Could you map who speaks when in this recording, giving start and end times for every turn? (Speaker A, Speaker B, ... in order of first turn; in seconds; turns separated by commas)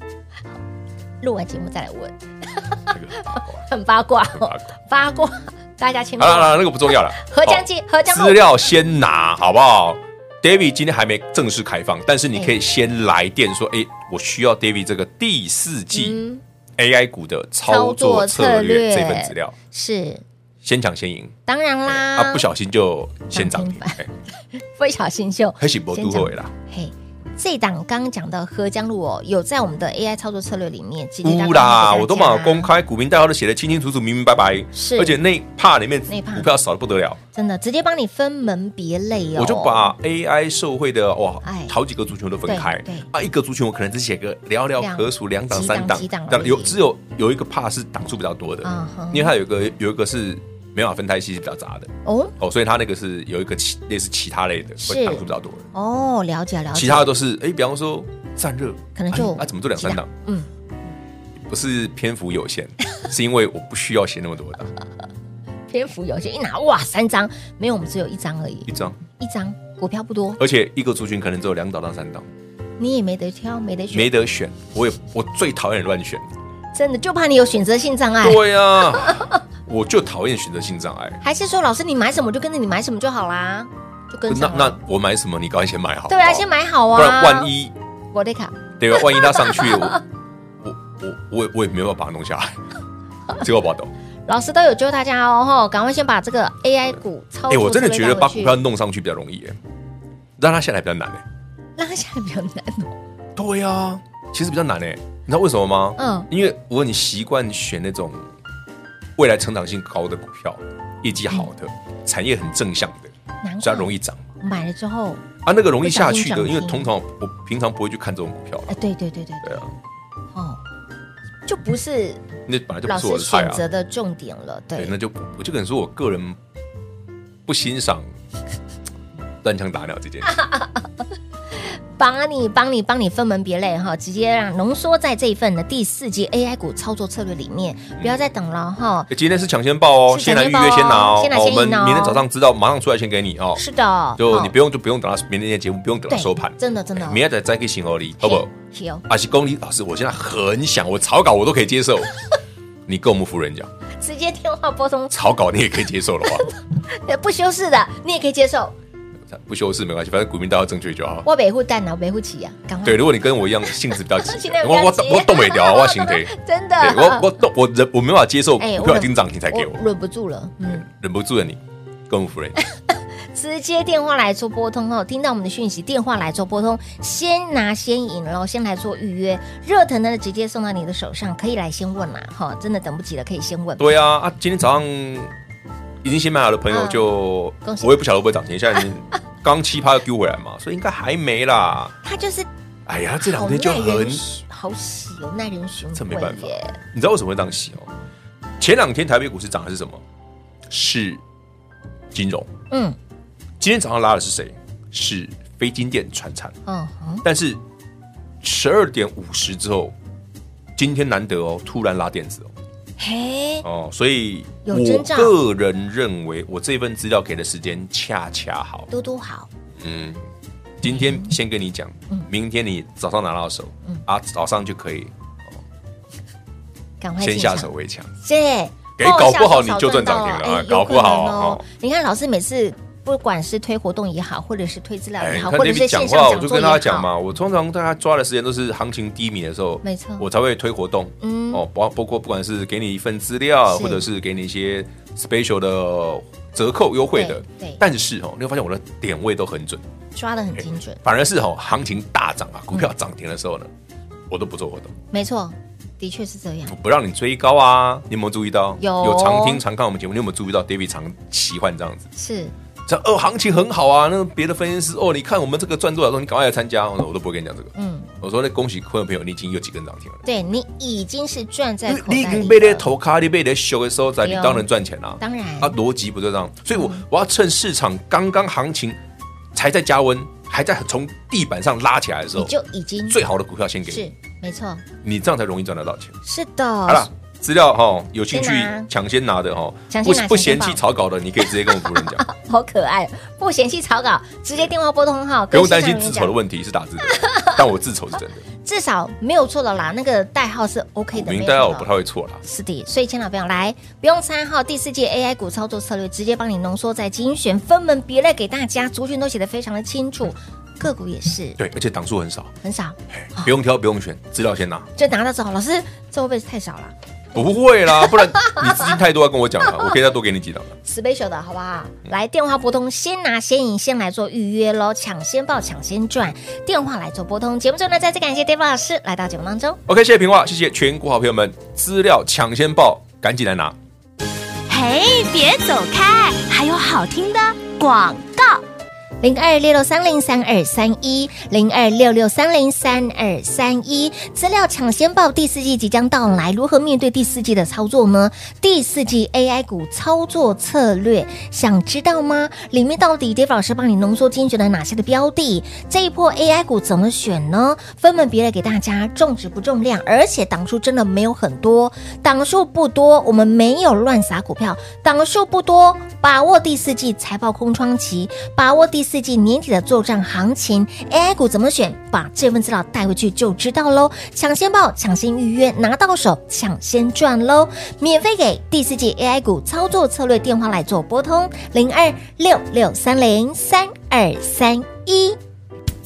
Speaker A: 1.2-8.4, Speaker B: 2.9-3.6, Speaker B: 4.4-4.6, Speaker B: 6.2-16.2, Speaker A: 15.9-16.4, Speaker B: 16.8-19.5, Speaker A: 17.7-20.2, Speaker B: 20.6-21.3, Speaker A: 21.5-22.5, Speaker B: 21.9-24.1, Speaker A: 23.3-24.0, Speaker A: 24.5-32.7, Speaker B: 25.6-26.5, Speaker B: 31.2-37.2, Speaker A: 34.7-35.2, Speaker A: 36.1-36.5, Speaker A: 37.3-39.9, Speaker B: 39.4-55.7, Speaker A: 41.4-41.8, Speaker A: 42.5-43.1, Speaker A: 44.8-46.8, Speaker A: 48.6-49.3, Speaker A: 52.0-52.3, Speaker A: 54.8-57.1, Speaker B: 56.7-60.1, Speaker A: 59.0-60.5, Speaker B: 61.4-64.7, Speaker A: 65.7-70.4, Speaker B: 68.7-69.0, Speaker B: 70.4-72.3, Speaker A: 72.8-74.1, Speaker B: 73.9-76.3, Speaker A: 76.7-78.5, Speaker B: 78.2-81.2, Speaker A: 79.0-79.4, Speaker A: 81.2-84.8, Speaker B: 84.3-87.7, Speaker A: 86.1-87.5, Speaker A: 88.1-90.0, Speaker B: 88.8-90.0, Speaker B: 90.6-92.6, Speaker B: 93.4-93.9, Speaker A: 94.3-98.6, Speaker B: 97.5-99.6, Speaker B: 100.4-101.2, Speaker A: 101.8-102.9, Speaker B: 103.4-108.2, Speaker A: 106.0-106.3, Speaker B: 109.2-114.3, Speaker A: 113.4-115.2, Speaker B: 115.5-118.8, Speaker A: 115.8-116.9, Speaker A: 118.7-119.7, Speaker B: 119.4-119.7, Speaker A: 120.3-120.6, Speaker A: 121.5-122.2, Speaker B: 122.5-123.6, Speaker A: 122.9-125.0, Speaker B: 124.8-126.4, Speaker B: 127.5-128.1, Speaker B: 129.4-130.4, Speaker A: 130.3-130.8, Speaker A: 132.0-139.1, Speaker B: 139.1-143.6, Speaker A: 140.1-142.2, Speaker A: 143.6-144.5, Speaker B: 144.2-148.5, Speaker A: 146.1-147.2, Speaker A: 148.2-149.1, Speaker B: 149.1-152.1, Speaker B: 152.9-153.7, Speaker A: 154.0-155.2, Speaker B: 155.1-156.5, Speaker A: 156.5-158.7, Speaker B: 159.3-161.3, Speaker A: 161.2-163.1, Speaker B: 162.8-169.8, Speaker A: 164.0-167.3, Speaker A: 168.6-170.9, Speaker B: 170.7-172.6, Speaker A: 172.9-183.9, Speaker B: 183.8-185.3, Speaker B: 186.0-192.0, Speaker A: 186.7-187.1, Speaker A: 187.6-188.0, Speaker A: 192.0-192.5, Speaker B: 192.9-194.3, Speaker A: 193.2-196.8, Speaker B: 195.9-197.9, Speaker B: 198.6-200.0, Speaker B: 200.7-201.2, Speaker B: 202.1-202.5, Speaker A: 202.7-203.0, Speaker B: 203.6-206.6, Speaker A: 206.7-207.2, Speaker B: 207.2-207.6, Speaker B: 208.4-209.9, Speaker B: 210.8-212.5, Speaker A: 213.0-213.7, Speaker B: 213.6-218.9, Speaker A: 214.7-215.4, Speaker A: 218.9-219.5, Speaker B: 219.8-220.2, Speaker B: 220.8-225.6, Speaker A: 227.0-237.1, Speaker B: 227.2-228.1, Speaker B: 229.0-231.6, Speaker B: 235.2-249.8, Speaker A: 239.8-240.2, Speaker A: 241.2-241.6, Speaker A: 243.7-244.0, Speaker A: 247.2-247.8, Speaker A: 250.2-251.0, Speaker B: 251.0-253.7, Speaker B: 254.3-254.9, Speaker A: 255.1-256.8, Speaker B: 256.7-262.1, Speaker A: 258.8-259.6, Speaker A: 262.2-262.5, Speaker B: 262.9-270.2, Speaker A: 267.8-268.1, Speaker A: 270.2-272.9, Speaker B: 271.9-279.0, Speaker A: 274.2-274.7, Speaker A: 275.2-275.8, Speaker A: 276.8-277.0, Speaker B: 279.5-282.5, Speaker A: 282.4-283.2, Speaker B: 283.1-284.1, Speaker A: 283.9-284.8, Speaker B: 285.0-286.2, Speaker A: 286.2-287.1, Speaker B: 286.9-292.2, Speaker A: 288.3-288.9, Speaker A: 289.9-290.8, Speaker A: 291.4-296.4, Speaker B: 295.5-298.4, Speaker A: 297.1-297.5, Speaker A: 298.6-301.9, Speaker B: 301.1-302.4, Speaker A: 302.4-311.6, Speaker B: 311.6-312.6, Speaker A: 312.6-313.5, Speaker B: 313.1-314.9, Speaker A: 315.0-316.9, Speaker B: 317.3-320.8, Speaker A: 318.0-318.9, Speaker A: 320.9-329.8, Speaker B: 329.9-333.8, Speaker A: 334.8-335.9, Speaker C: 335.2-338.4, Speaker A: 339.2-385.4